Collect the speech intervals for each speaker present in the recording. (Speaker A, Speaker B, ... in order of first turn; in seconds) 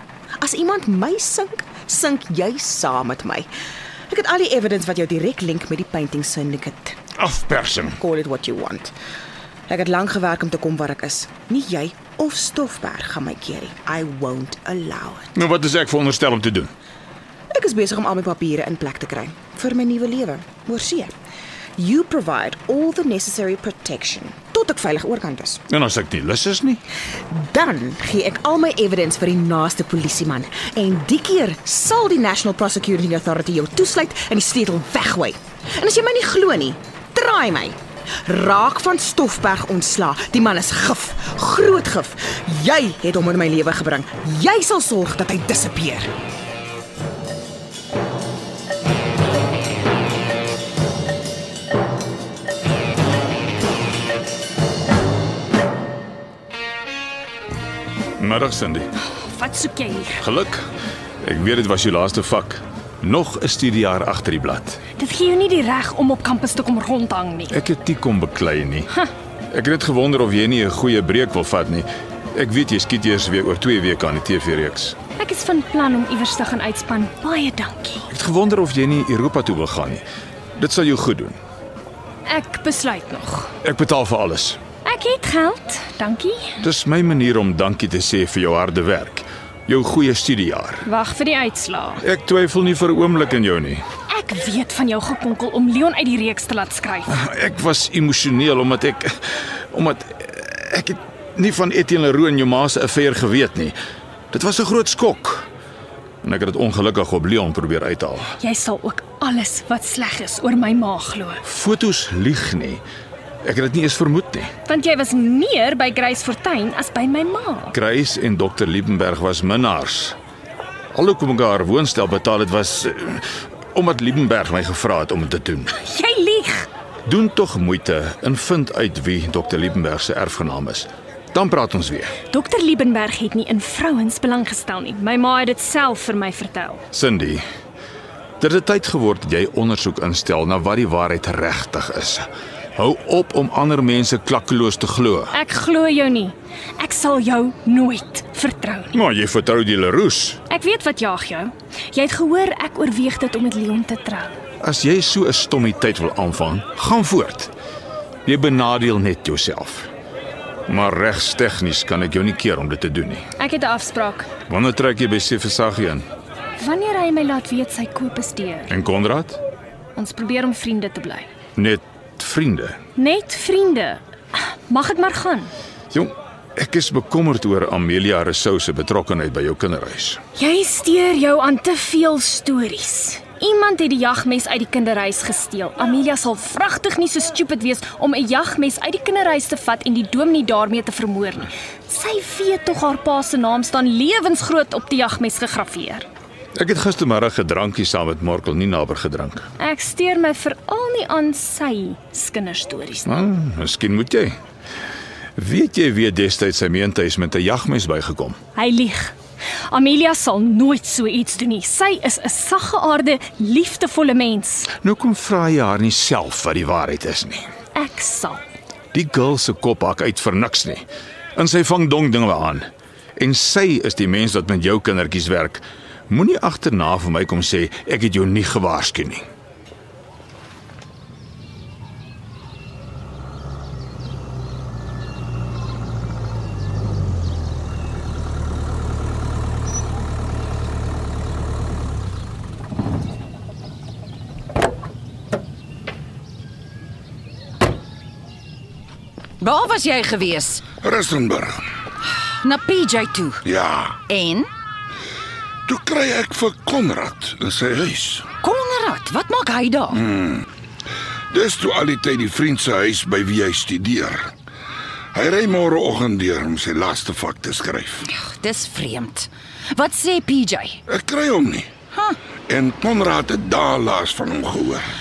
Speaker A: 0.4-3.5, 4.1-7.0, 8.0-8.9, 9.7-15.3, 17.5-21.1, 21.8-25.6, 27.3-46.1
Speaker B: 7.2-8.0, 15.3-16.7, 25.7-26.8, 58.2-58.9, 60.2-60.6, 61.2-64.8, 67.5-68.9, 69.5-75.0, 78.1-80.0, 80.6-81.4, 83.6-84.6, 86.6-90.9, 92.0-93.8, 97.1-103.8, 104.3-105.5, 106.2-108.3, 111.4-112.8, 113.4-114.5, 117.7-120.2, 120.9-125.8, 127.1-132.2, 136.9-137.4, 138.4-145.4, 148.9-150.4, 154.6-157.5, 158.2-159.9, 160.7-163.3, 164.5-166.1, 168.7-169.4, 171.6-172.8, 175.9-180.2, 196.6-199.5, 203.1-204.4, 205.4-208.4, 214.8-217.5, 218.9-220.8, 221.4-229.3
Speaker C: 59.1-60.2, 65.0-67.5, 75.2-78.1, 82.3-83.5, 84.8-86.5, 90.9-92.0, 94.1-97.1, 108.4-111.4, 114.7-117.7, 125.8-126.7, 132.3-136.8, 145.3-148.9, 150.5-154.3, 163.4-164.3, 166.6-168.7, 170.0-171.3, 173.0-174.0, 174.7-175.5, 180.4-196.1, 199.6-203.1, 208.6-209.2, 209.7-214.7, 217.8-218.4
Speaker D: 249.4-250.7, 252.4-253.4, 254.1-254.5, 258.4-260.0, 268.1-270.8, 271.9-272.2
Speaker E: 250.8-251.6, 253.4-254.0, 255.7-258.3, 260.1-260.4, 261.3-264.3, 265.1-268.1, 270.9-271.7, 272.5-274.9